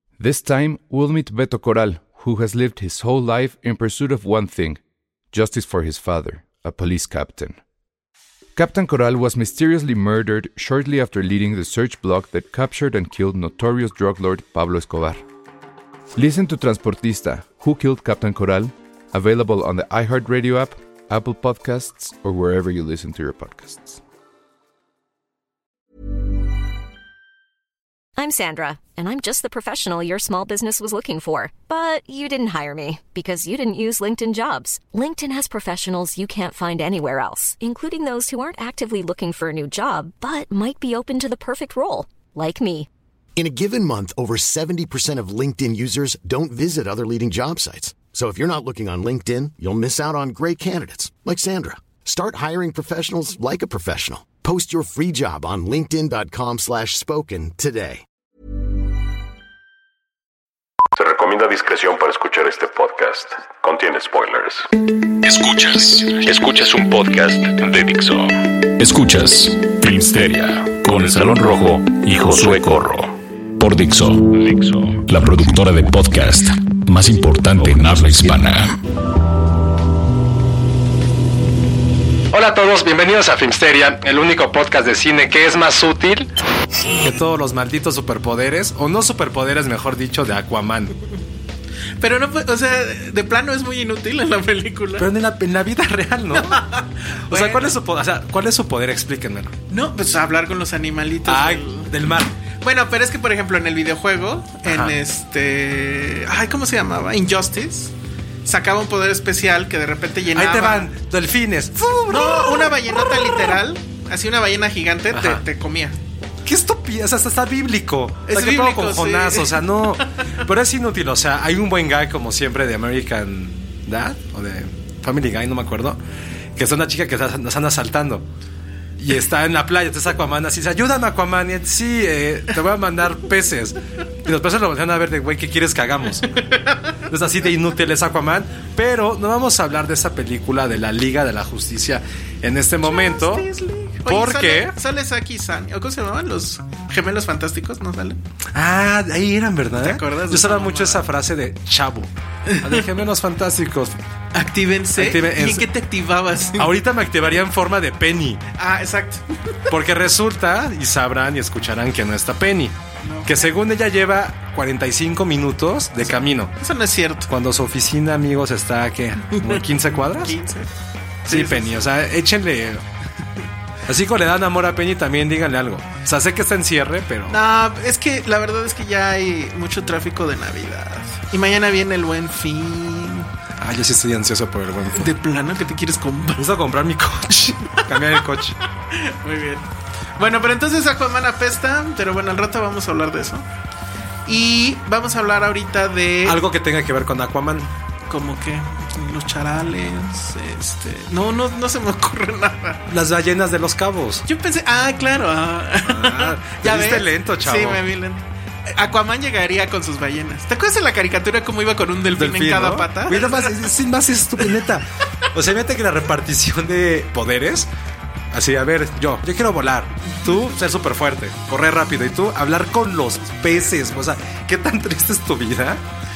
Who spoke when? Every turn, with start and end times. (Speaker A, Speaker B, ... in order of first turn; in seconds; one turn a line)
Speaker A: 0.2-4.8
Speaker A: 5.3-7.6
Speaker A: 8.5-15.2
Speaker A: 16.2-24.0
Speaker B: 28.2-42.9
Speaker C: 43.4-58.0
Speaker D: 61.0-64.7
Speaker E: 64.8-78.8
Speaker F: 82.3-86.3
Speaker F: 86.9-90.9
Speaker G: 92.0-95.1
Speaker F: 95.0-96.6
Speaker G: 96.4-97.8
Speaker F: 97.3-99.5
Speaker G: 99.7-101.9
Speaker F: 101.2-102.3
Speaker G: 102.6-107.9
Speaker F: 104.7-105.0
Speaker G: 108.4-110.9
Speaker F: 110.3-113.6
Speaker G: 112.1-116.0
Speaker F: 115.1-115.4
Speaker F: 116.4-126.0
Speaker G: 118.2-120.1
Speaker F: 126.5-128.2
Speaker F: 129.0-136.4
Speaker G: 136.4-136.8
Speaker F: 137.1-143.5
Speaker G: 142.8-148.2
Speaker F: 144.1-144.8
Speaker F: 148.5-154.0
Speaker G: 149.8-151.1
Speaker G: 152.5-152.9
Speaker G: 154.3-156.8
Speaker F: 155.0-155.7
Speaker F: 156.6-158.4
Speaker G: 158.6-159.2
Speaker F: 159.7-166.5
Speaker G: 163.0-163.5
Speaker G: 166.1-167.3
Speaker F: 167.3-170.3
Speaker G: 169.3-170.7
Speaker G: 171.2-171.9
Speaker F: 171.2-172.8
Speaker F: 173.9-177.4
Speaker G: 177.3-183.3
Speaker F: 183.6-185.1
Speaker G: 184.9-186.5
Speaker F: 186.4-188.6
Speaker G: 188.9-189.7
Speaker G: 190.2-193.5
Speaker G: 194.2-196.4
Speaker F: 196.2-197.7
Speaker G: 198.1-202.8
Speaker F: 202.8-204.2
Speaker G: 204.3-213.6
Speaker F: 205.8-207.8
Speaker F: 212.2-217.7
Speaker F: 218.3-225.8